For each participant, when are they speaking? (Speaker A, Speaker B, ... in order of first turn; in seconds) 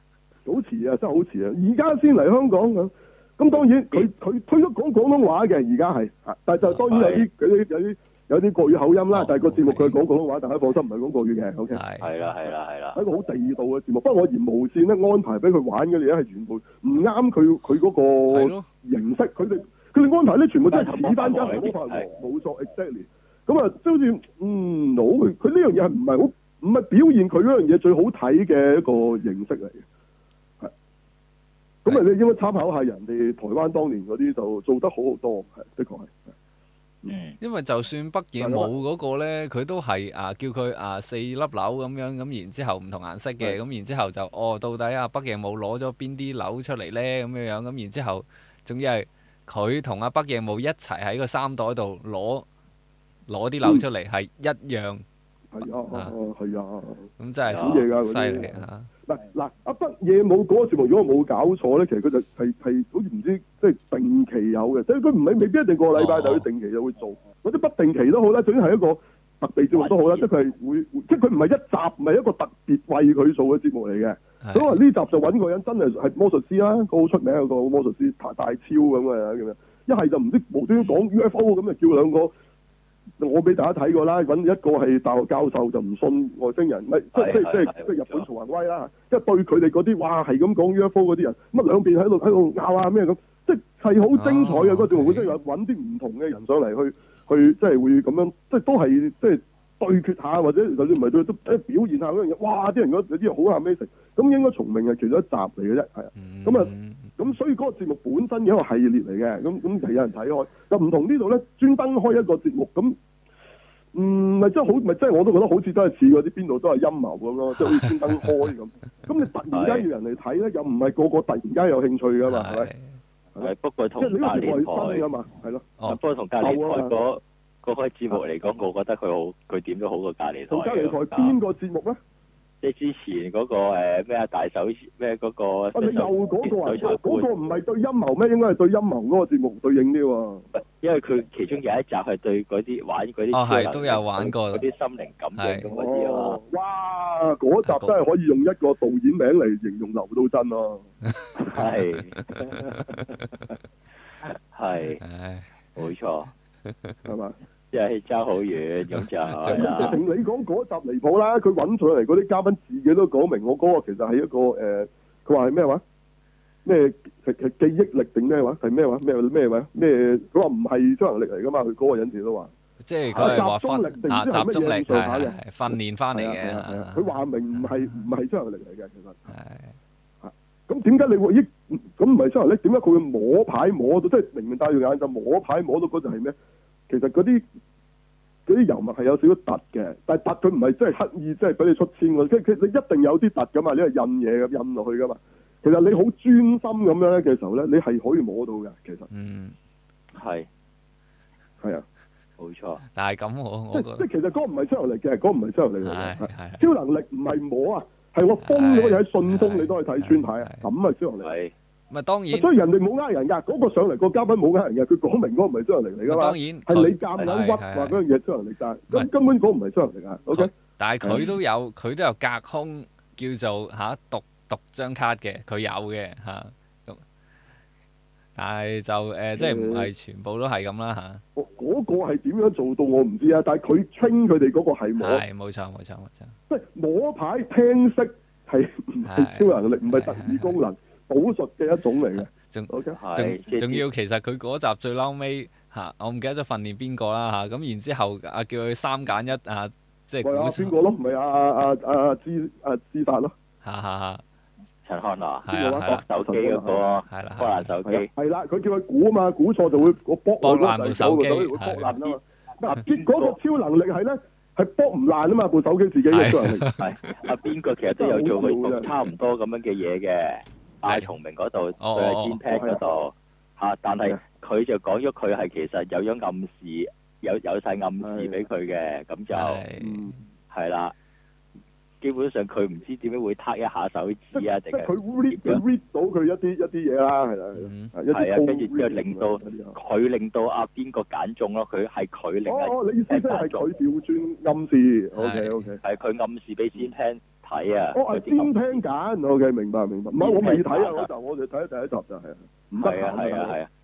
Speaker A: 0.5-11.8, 12.9-29.8, 31.8-36.2, 38.4-38.7, 55.5-82.3, 83.2-113.0, 113.9-122.7, 123.4-125.7, 126.4-126.9, 130.5-132.0, 135.7-140.5, 145.7-150.8, 157.1-157.3, 159.5-165.8, 166.7-172.5, 173.1-179.3, 180.2-186.3, 186.9-187.4, 188.5-199.1, 203.7-211.3, 212.3-220.5, 221.0-221.3, 229.4-229.9, 231.4-235.2, 236.5-243.0, 250.2-253.3, 255.5-256.8, 257.9-266.7, 268.0-268.9, 272.5-272.8, 278.0-278.4, 279.8-280.2, 284.3-289.8, 292.5-295.8, 297.9-303.6
Speaker B: 6.9-7.3, 12.0-13.0, 20.7-22.1, 37.1-37.4, 57.5-57.8, 69.7-70.3, 87.1-88.2, 119.5-119.9, 123.4-125.0, 125.9-131.4, 132.6-137.3, 140.8-146.4, 151.4-153.2, 154.5-155.0, 155.8-156.3, 157.7-160.0, 200.2-200.5, 202.4-202.8, 211.2-211.5, 243.0-243.8, 254.8-258.1, 261.8-262.2, 262.9-263.4, 266.8-279.6, 280.5-280.9, 282.0-285.6, 288.1-293.7, 295.8-298.8, 300.2-301.1, 302.8-303.7
Speaker C: 9.1-10.0, 11.7-12.1, 18.3-18.7, 37.4-52.5, 53.3-55.0, 57.2-58.9, 66.0-66.5, 74.4-74.8, 94.2-95.3, 106.2-107.1, 117.6-118.3, 122.3-122.9, 143.3-144.6, 145.4-145.7, 147.7-147.9, 152.7-153.1, 155.0-155.5, 156.7-157.0, 158.9-160.0, 172.8-177.1, 179.3-179.7, 199.1-199.6, 202.8-204.1, 205.8-206.6, 208.4-210.7, 211.9-212.5, 216.1-218.0, 220.3-227.0, 228.4-231.2, 235.0-236.3, 239.1-240.6, 242.2-250.7, 253.6-254.2, 255.4-256.0, 257.1-257.7, 260.4-261.9, 266.1-266.9, 271.8-272.4, 279.3-280.1, 287.6-287.9, 295.2-295.7